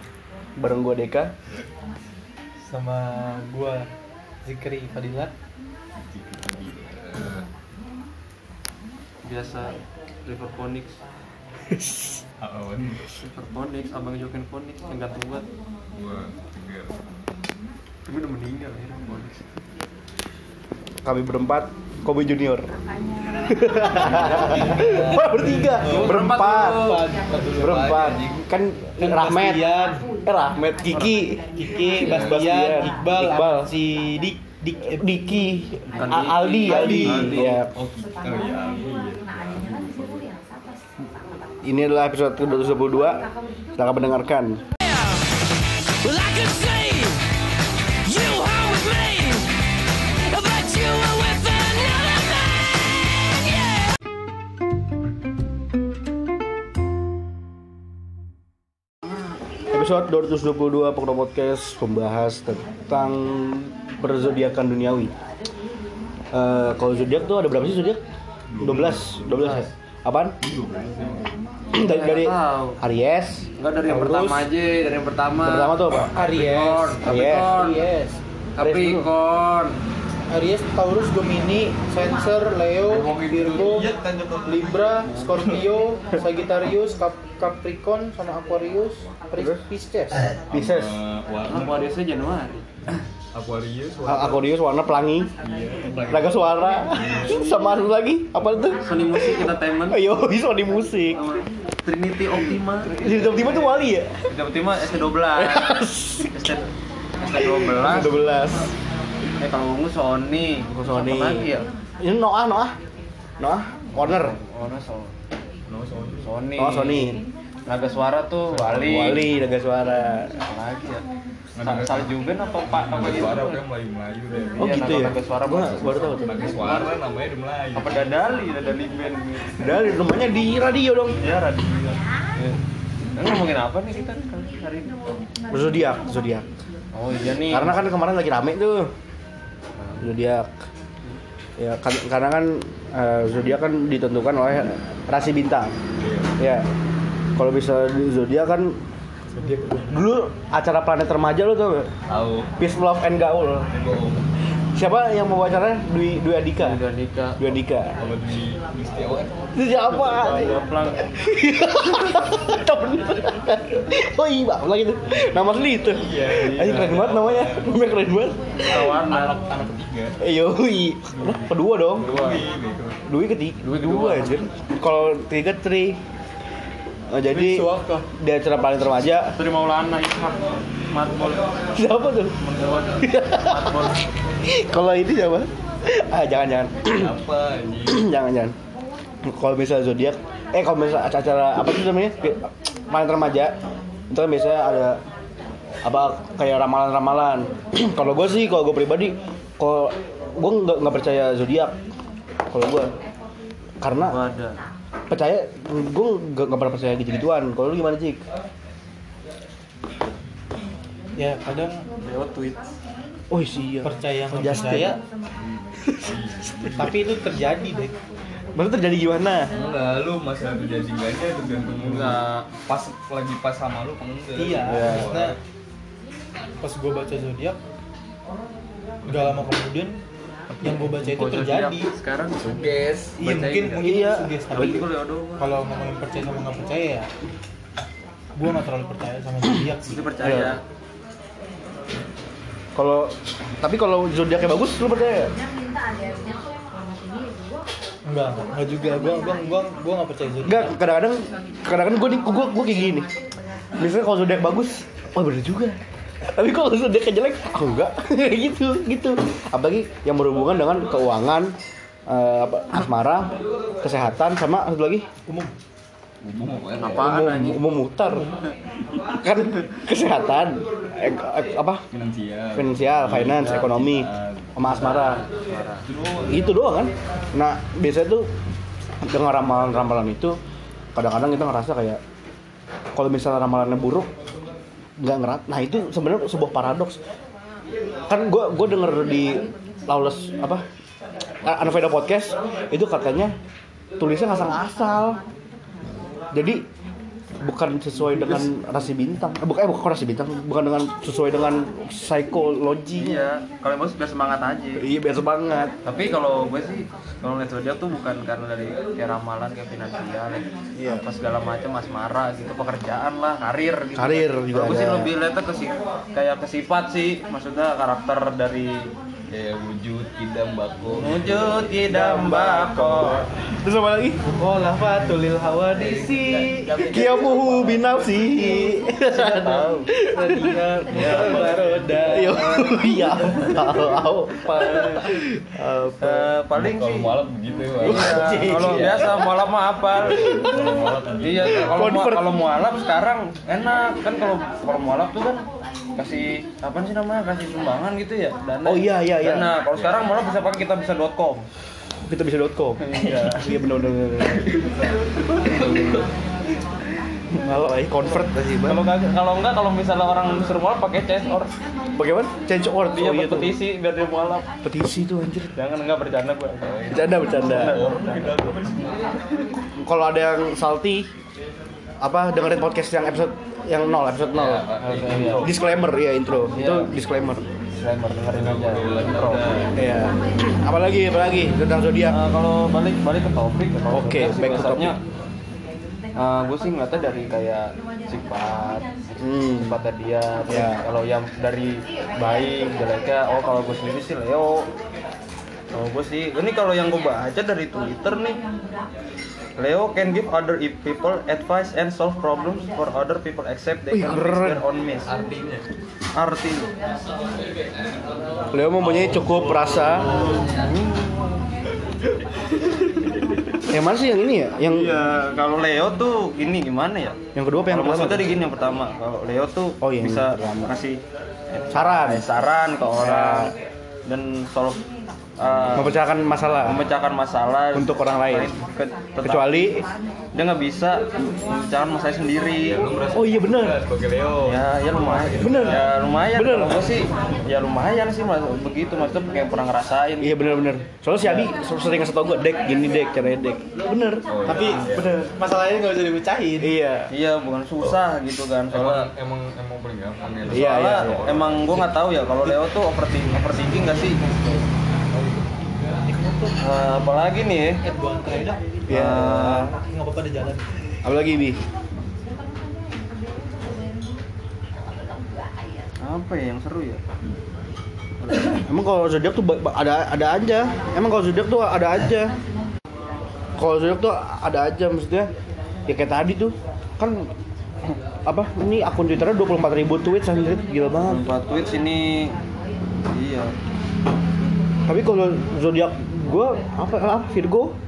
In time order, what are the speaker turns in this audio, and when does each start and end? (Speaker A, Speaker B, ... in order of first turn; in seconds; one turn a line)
Speaker A: 0.6-1.3
Speaker B: 2.7-3.9
Speaker B: 4.4-5.3
Speaker C: 6.1-7.5
Speaker D: 9.2-11.0
Speaker A: 11.7-12.2
Speaker C: 12.4-13.0
Speaker D: 13.2-15.5
Speaker C: 15.9-17.0
Speaker D: 18.1-19.4
Speaker A: 21.0-22.7
Speaker A: 23.3-27.0
Speaker D: 24.1-27.0
Speaker C: 24.2-24.9
Speaker B: 24.6-28.1
Speaker C: 27.4-28.5
Speaker A: 27.6-29.7
Speaker B: 29.0-30.1
Speaker A: 30.2-33.7
Speaker D: 30.9-31.2
Speaker B: 31.6-35.1
Speaker C: 31.9-32.7
Speaker A: 34.9-37.7
Speaker D: 35.9-37.6
Speaker C: 36.6-40.3
Speaker B: 36.7-37.2
Speaker A: 41.6-44.6
Speaker E: 44.9-45.3
Speaker E: 46.0-47.2
Speaker E: 48.0-49.5
Speaker E: 50.3-53.9
Speaker A: 59.7-65.1
Speaker A: 66.3-68.0
Speaker C: 68.5-69.7
Speaker A: 68.6-70.4
Speaker C: 70.4-71.3
Speaker A: 71.7-73.5
Speaker D: 71.7-72.8
Speaker D: 73.6-77.8
Speaker B: 73.9-74.5
Speaker A: 75.4-76.1
Speaker B: 76.1-78.2
Speaker A: 77.0-77.6
Speaker D: 78.6-79.8
Speaker A: 78.6-79.1
Speaker B: 80.3-83.9
Speaker C: 82.8-85.6
Speaker B: 84.4-90.3
Speaker D: 85.0-85.4
Speaker A: 89.3-89.6
Speaker A: 90.4-91.0
Speaker C: 90.5-91.9
Speaker D: 91.5-92.7
Speaker C: 93.3-94.5
Speaker A: 94.0-95.3
Speaker C: 95.4-97.5
Speaker A: 96.1-98.8
Speaker C: 98.6-99.3
Speaker D: 98.8-100.0
Speaker A: 99.9-101.2
Speaker D: 101.2-106.6
Speaker A: 102.3-104.3
Speaker A: 105.3-106.5
Speaker D: 107.2-108.2
Speaker A: 107.3-108.7
Speaker D: 109.4-111.7
Speaker A: 110.7-112.8
Speaker A: 113.4-114.4
Speaker D: 114.0-115.1
Speaker C: 115.7-116.3
Speaker D: 116.2-119.3
Speaker A: 116.6-117.2
Speaker C: 118.5-119.3
Speaker A: 118.8-120.4
Speaker D: 120.3-121.1
Speaker C: 121.5-124.9
Speaker D: 121.6-123.6
Speaker D: 124.5-126.9
Speaker A: 124.6-126.5
Speaker C: 126.2-128.1
Speaker D: 127.7-130.1
Speaker A: 129.6-131.2
Speaker D: 131.2-132.6
Speaker D: 133.1-135.1
Speaker A: 135.5-136.4
Speaker D: 136.9-137.8
Speaker A: 137.5-138.9
Speaker A: 140.0-140.5
Speaker A: 141.6-145.8
Speaker C: 146.0-146.3
Speaker A: 146.4-146.7
Speaker A: 147.3-148.8
Speaker B: 149.3-150.0
Speaker A: 149.9-151.9
Speaker C: 152.1-152.5
Speaker A: 152.6-153.7
Speaker C: 153.7-154.2
Speaker A: 154.7-156.8
Speaker D: 156.6-157.4
Speaker A: 157.4-157.9
Speaker C: 158.0-159.4
Speaker A: 159.5-160.6
Speaker D: 159.9-161.1
Speaker A: 161.2-168.4
Speaker C: 165.9-167.9
Speaker D: 168.5-169.5
Speaker C: 168.6-170.2
Speaker A: 170.2-172.2
Speaker C: 171.1-173.0
Speaker D: 172.0-172.4
Speaker A: 173.1-176.0
Speaker D: 173.6-174.4
Speaker A: 177.1-179.4
Speaker B: 177.3-178.1
Speaker D: 179.3-181.6
Speaker A: 181.7-182.4
Speaker D: 182.4-184.0
Speaker A: 183.0-183.9
Speaker A: 184.4-187.2
Speaker C: 186.9-188.1
Speaker A: 187.8-188.5
Speaker A: 189.2-193.6
Speaker A: 194.1-195.0
Speaker A: 195.8-201.8
Speaker A: 202.5-202.9
Speaker A: 203.8-204.2
Speaker D: 204.0-204.6
Speaker A: 205.1-208.2
Speaker B: 211.2-211.8
Speaker D: 212.0-212.6
Speaker A: 213.3-215.0
Speaker B: 213.8-215.0
Speaker A: 215.8-216.9
Speaker C: 216.0-217.1
Speaker B: 216.7-217.9
Speaker A: 218.5-219.5
Speaker C: 219.5-225.4
Speaker D: 221.8-222.5
Speaker B: 224.3-225.4
Speaker A: 224.7-225.1
Speaker B: 226.6-227.6
Speaker C: 229.0-229.4
Speaker B: 229.0-230.0
Speaker D: 230.6-233.9
Speaker B: 230.6-231.9
Speaker C: 232.3-233.2
Speaker B: 233.2-234.8
Speaker A: 233.8-234.8
Speaker D: 234.5-235.6
Speaker B: 235.4-237.1
Speaker B: 238.3-240.1
Speaker D: 239.9-240.6
Speaker A: 240.2-240.6
Speaker A: 242.8-245.3
Speaker B: 248.1-250.7
Speaker A: 250.4-253.1
Speaker A: 253.8-261.5
Speaker A: 262.1-265.1
Speaker B: 265.3-265.5
Speaker C: 266.2-267.2
Speaker D: 266.8-267.6
Speaker A: 267.0-268.3
Speaker A: 269.1-271.8
Speaker C: 271.9-274.5
Speaker A: 272.6-275.2
Speaker D: 273.4-273.7
Speaker D: 274.6-275.8
Speaker C: 275.9-276.6
Speaker A: 276.3-278.3
Speaker A: 279.0-280.4
Speaker A: 280.9-282.0
Speaker A: 282.9-284.1
Speaker A: 285.0-287.0
Speaker A: 288.1-290.6
Speaker A: 291.4-293.3
Speaker A: 294.0-295.2
Speaker A: 296.3-296.6
Speaker A: 297.4-303.2
Speaker D: 302.9-304.8
Speaker A: 304.8-305.7
Speaker D: 305.8-318.9
Speaker A: 310.7-311.1
Speaker A: 313.9-315.1
Speaker C: 319.3-321.7
Speaker D: 320.9-323.2
Speaker A: 321.7-331.4
Speaker B: 324.2-326.7
Speaker D: 325.7-329.9
Speaker B: 330.1-332.9
Speaker C: 330.9-332.1
Speaker D: 330.9-332.7
Speaker A: 332.1-336.3
Speaker D: 333.2-333.6
Speaker D: 334.4-335.1
Speaker D: 336.0-337.1
Speaker C: 336.5-339.4
Speaker A: 337.8-339.1
Speaker D: 337.8-340.6
Speaker C: 339.9-341.9
Speaker A: 340.1-340.7
Speaker D: 341.2-351.5
Speaker A: 341.6-342.3
Speaker A: 348.6-349.5
Speaker C: 349.6-350.1
Speaker A: 352.1-354.6
Speaker D: 352.8-353.5
Speaker C: 353.0-353.4
Speaker C: 354.2-356.1
Speaker D: 355.4-356.0
Speaker A: 355.4-355.9
Speaker A: 357.3-358.9
Speaker D: 358.6-361.6
Speaker A: 361.9-363.6
Speaker D: 362.9-364.4
Speaker A: 364.6-365.5
Speaker D: 365.5-368.4
Speaker C: 366.6-369.1
Speaker A: 366.9-367.8
Speaker A: 369.8-371.1
Speaker A: 372.0-374.7
Speaker C: 374.3-375.6
Speaker D: 374.8-375.5
Speaker A: 375.4-377.5
Speaker D: 376.5-376.9
Speaker D: 377.7-379.4
Speaker C: 378.3-379.8
Speaker A: 379.7-382.2
Speaker D: 382.1-385.0
Speaker A: 383.9-384.9
Speaker D: 386.1-394.7
Speaker A: 389.2-389.8
Speaker A: 390.5-390.8
Speaker D: 395.7-398.4
Speaker D: 399.6-405.1
Speaker A: 403.9-404.6
Speaker C: 405.0-405.6
Speaker D: 406.1-406.7
Speaker A: 408.5-410.2
Speaker C: 408.8-410.7
Speaker D: 410.1-411.4
Speaker C: 412.7-413.6
Speaker A: 413.6-415.0
Speaker D: 414.6-417.2
Speaker A: 417.3-418.4
Speaker D: 417.7-421.0
Speaker A: 419.8-420.7
Speaker D: 421.5-424.8
Speaker A: 421.7-422.2
Speaker A: 422.9-423.5
Speaker D: 425.4-426.0
Speaker C: 425.4-425.9
Speaker A: 425.7-426.8
Speaker D: 426.6-429.5
Speaker A: 427.7-428.5
Speaker A: 429.2-429.9
Speaker D: 430.3-432.8
Speaker C: 432.6-435.9
Speaker A: 433.1-433.8
Speaker D: 434.4-440.6
Speaker A: 435.4-436.8
Speaker A: 440.2-445.3
Speaker C: 444.3-445.3
Speaker B: 444.5-446.7
Speaker A: 446.6-447.1
Speaker D: 447.1-449.1
Speaker C: 448.7-451.9
Speaker A: 450.5-451.2
Speaker D: 450.5-454.2
Speaker B: 453.9-454.7
Speaker B: 456.1-456.6
Speaker D: 456.6-457.8
Speaker B: 457.8-458.9
Speaker A: 458.9-459.7
Speaker D: 458.9-459.7
Speaker B: 459.7-460.6
Speaker A: 461.0-461.6
Speaker D: 466.0-467.0
Speaker D: 468.2-468.6
Speaker A: 468.6-472.4
Speaker A: 473.6-475.3
Speaker A: 475.9-477.3
Speaker A: 478.3-481.2
Speaker D: 481.1-482.4
Speaker D: 483.1-483.5
Speaker A: 484.9-487.7